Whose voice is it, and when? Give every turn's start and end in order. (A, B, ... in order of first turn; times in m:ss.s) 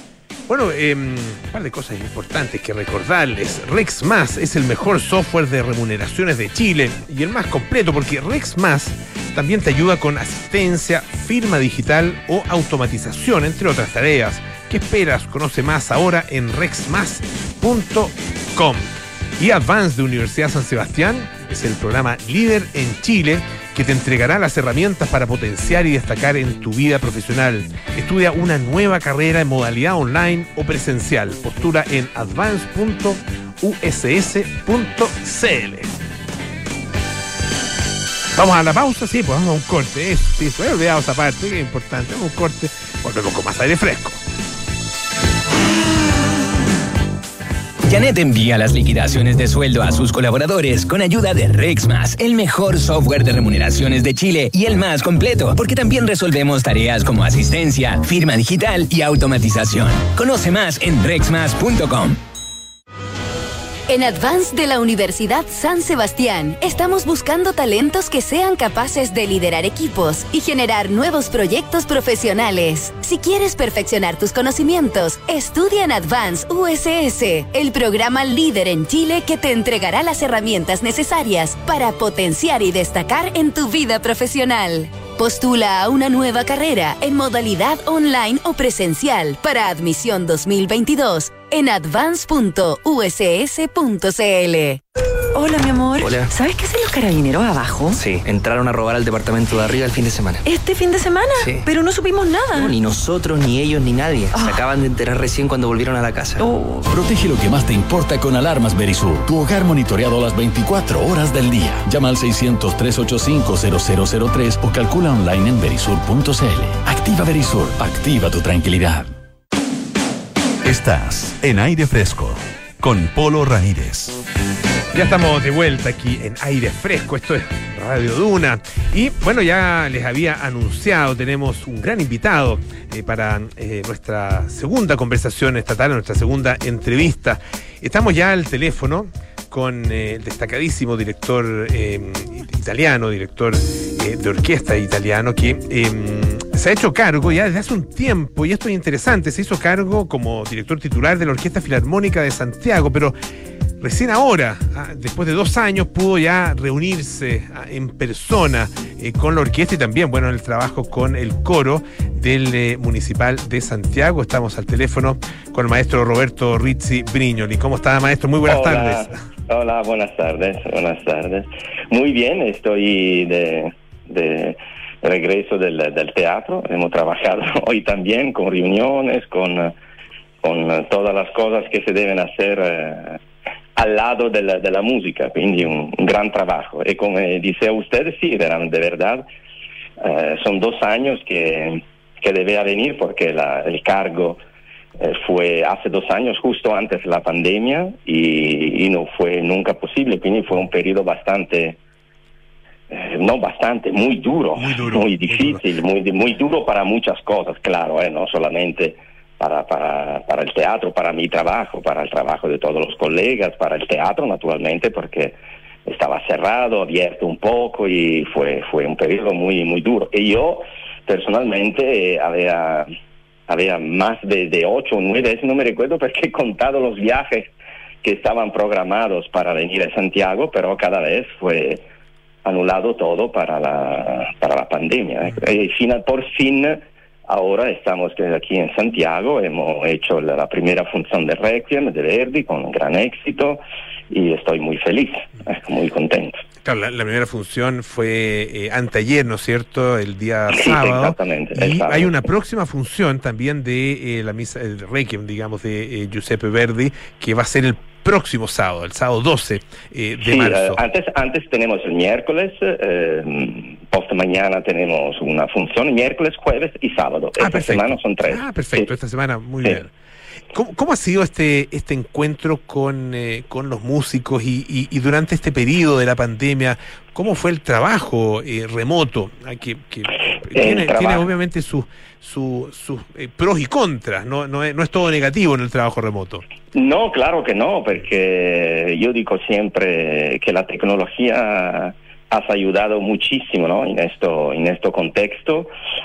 0:00.5-0:35.9 A
0:38.3-0:44.2 A
0:47.8-1:02.2 B
1:03.9-1:34.8 C
1:35.3-1:38.0 D
1:36.0-1:36.3 E
1:38.0-1:40.4 E
1:40.4-1:42.7 D
1:42.6-1:46.4 E
1:44.3-1:44.6 D
1:46.4-1:46.9 D
1:46.9-1:59.1 F
2:00.6-2:04.1 G
2:04.9-2:33.2 A
2:33.8-2:49.1 A
2:48.5-2:59.7 H
3:00.4-3:03.2 H
3:03.8-3:09.2 H
3:10.0-3:14.4 H
3:15.0-3:21.8 H
3:22.9-3:42.9 H
3:24.6-3:25.6 A
3:43.5-3:47.5 H
3:48.0-3:51.8 H
3:52.4-4:06.4 H
4:06.6-4:20.8 A
4:10.5-4:12.1 H
4:20.2-4:28.9 H
4:27.4-4:29.9 A
4:30.5-4:46.4 A
4:40.5-4:41.2 H
4:46.7-4:55.7 H